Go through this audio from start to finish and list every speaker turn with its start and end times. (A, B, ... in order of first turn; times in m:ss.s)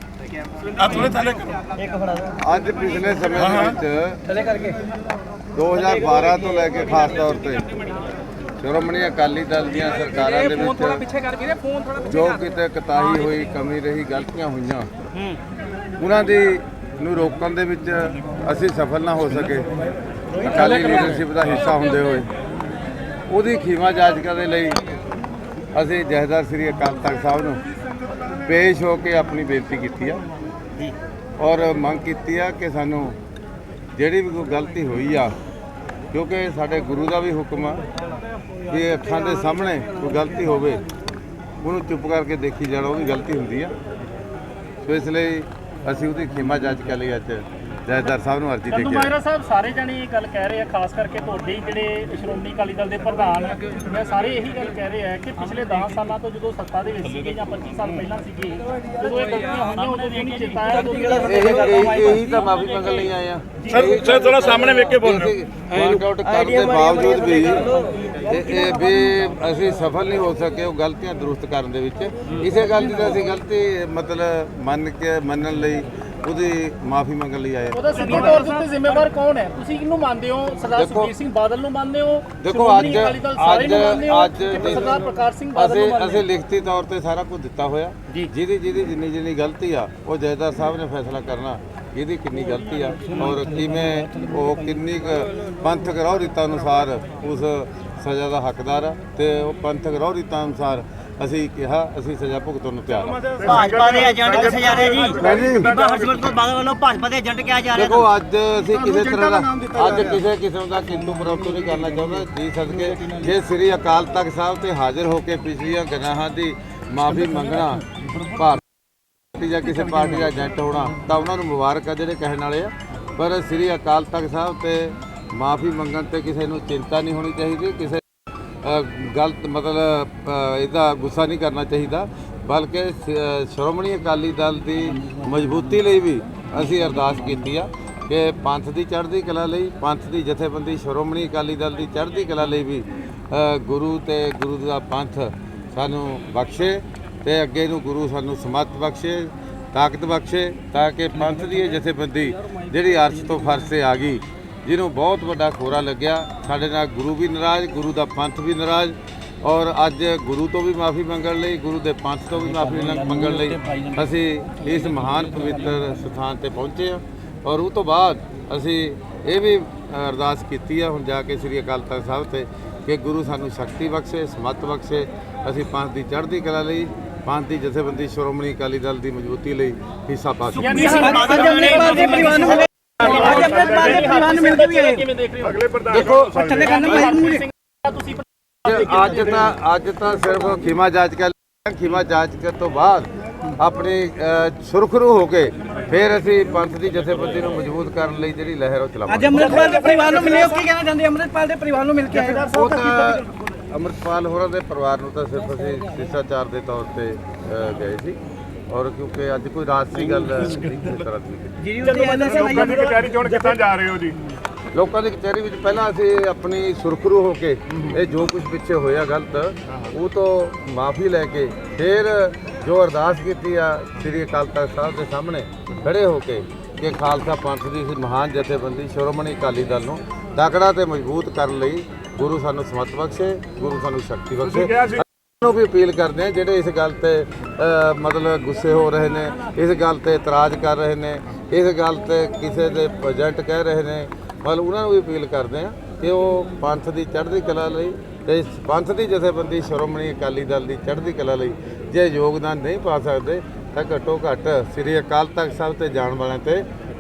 0:00.8-0:01.3 A
0:01.8-0:02.3 B
0:01.9-0:02.3 A
0:02.4-0:04.2 C
0:04.3-0:04.8 A
0:05.6-0:07.7 C
0:05.8-0:06.7 A
0:08.6-0:11.1 C
0:10.0-0:12.3 A
0:12.0-0:14.9 C
0:16.0-0:19.7 C
0:20.4-0:22.3 C
0:20.4-0:20.8 D
0:23.3-0:24.9 C
0:25.7-0:27.6 C
0:28.4-0:30.2 C
0:31.4-0:33.2 C
0:34.0-0:35.3 C
0:36.1-0:37.8 C
0:38.7-0:40.8 C
0:41.6-0:43.7 C
0:44.8-0:49.1 C
0:48.7-1:01.7 D
1:00.5-1:02.5 A
1:01.2-1:18.4 C
1:03.6-1:03.9 D
1:03.7-1:05.3 E
1:05.7-1:09.2 A
1:17.7-1:26.2 D
1:20.8-1:21.1 C
1:22.4-1:43.3 C
1:33.2-1:34.5 A
1:43.4-1:46.4 E
1:43.4-1:48.1 B
1:45.2-1:45.7 C
1:47.7-1:58.6 C
1:59.3-2:08.0 C
2:08.6-3:00.9 C
2:42.5-2:44.0 A
3:00.5-3:02.7 B
3:00.6-3:05.7 D
3:00.8-3:05.0 A
3:03.4-3:03.8 E
3:05.4-3:07.0 E
3:05.9-3:07.5 A
3:06.5-3:09.5 D
3:08.6-3:19.8 C
3:19.1-3:22.6 A
3:19.6-3:20.5 D
3:22.2-3:22.9 D
3:22.4-3:28.2 C
3:28.7-3:31.6 C
3:31.6-3:33.2 A
3:31.8-3:32.8 D
3:32.0-3:34.2 E
3:34.7-4:16.7 C
3:54.5-3:55.0 E